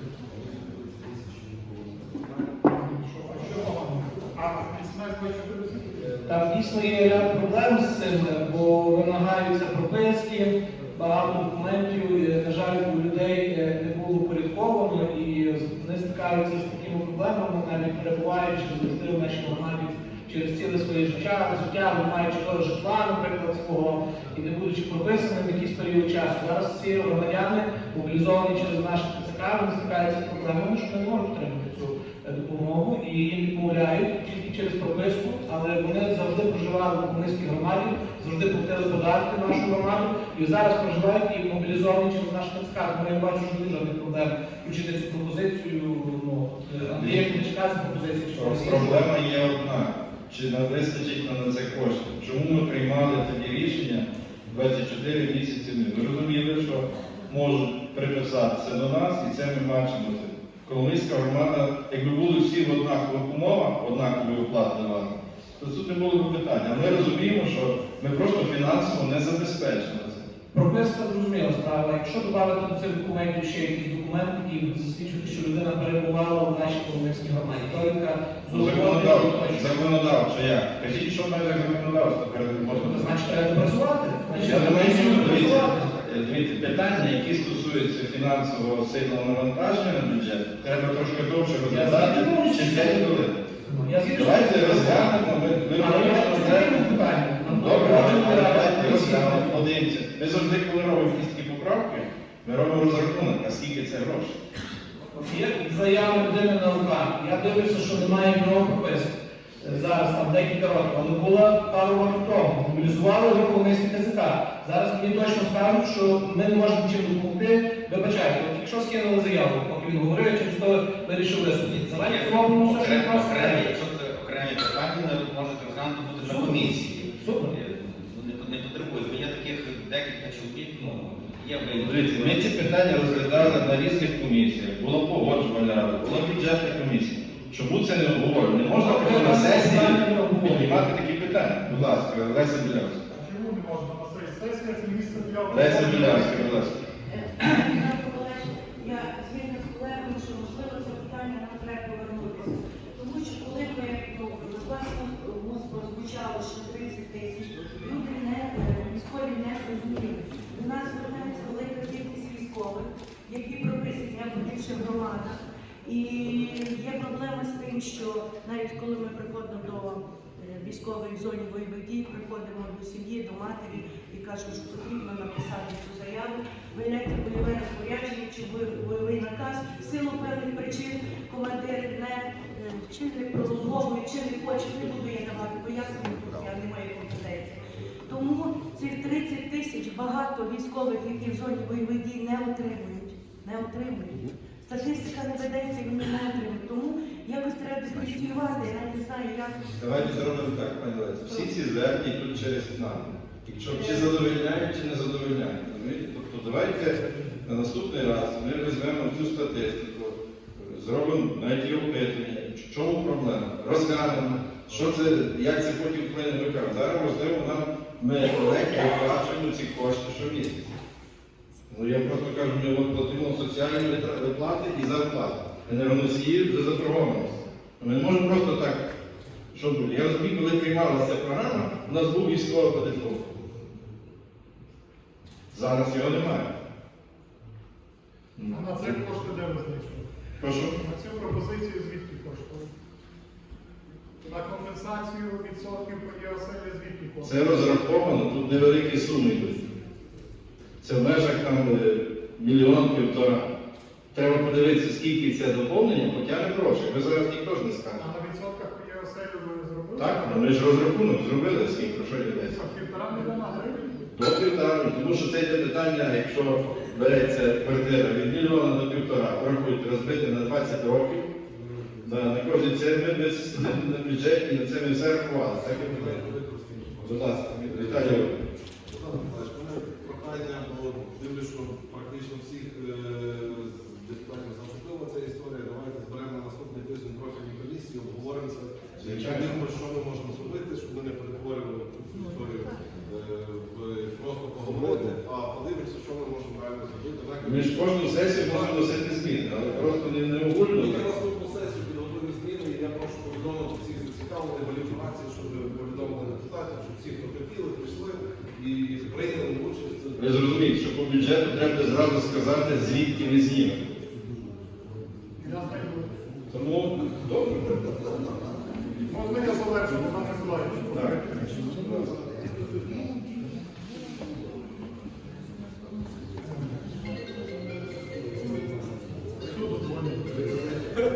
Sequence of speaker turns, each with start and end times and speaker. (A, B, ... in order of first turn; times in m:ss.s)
0:00.4-0:02.4 A
0:02.6-0:06.2 B
0:06.3-0:49.1 C
0:46.9-0:47.4 D
0:48.3-1:10.3 D
1:10.5-1:19.8 C
1:18.5-1:23.4 D
1:22.7-1:25.9 C
1:24.4-1:33.4 D
1:31.7-1:35.2 C
1:34.1-1:44.4 D
1:35.8-1:39.6 C
1:45.1-2:03.7 C
2:01.6-2:13.7 E
2:06.2-2:07.6 C
2:11.7-2:23.0 D
2:18.8-2:20.9 C
2:23.1-2:26.6 B
2:25.5-2:26.8 D
2:27.1-3:19.7 F
3:19.8-3:40.7 D
3:23.7-3:24.1 F
3:41.7-3:48.9 D
3:49.5-3:53.2 D
3:55.5-3:56.5 D
3:58.4-3:59.0 D
3:58.5-4:00.1 B
4:00.4-4:00.7 D
4:00.6-4:02.7 B
4:04.2-4:07.8 B
4:07.2-4:09.7 D
4:10.8-4:13.5 D
4:14.1-4:18.0 D
4:18.0-4:20.6 B
4:20.0-4:22.6 D
4:22.3-4:24.1 B
4:24.1-4:31.3 D
4:31.5-4:32.3 A
4:32.0-4:36.3 D
4:35.6-4:58.9 A
4:37.0-4:38.4 D
4:49.0-4:49.6 D
4:57.4-5:01.1 D
4:59.7-5:00.0 A
5:00.7-5:10.4 A
5:10.2-5:13.8 D
5:15.4-5:16.1 B
5:16.5-5:17.8 D
5:19.1-5:21.2 B
5:20.9-5:22.3 D
5:29.5-5:30.4 B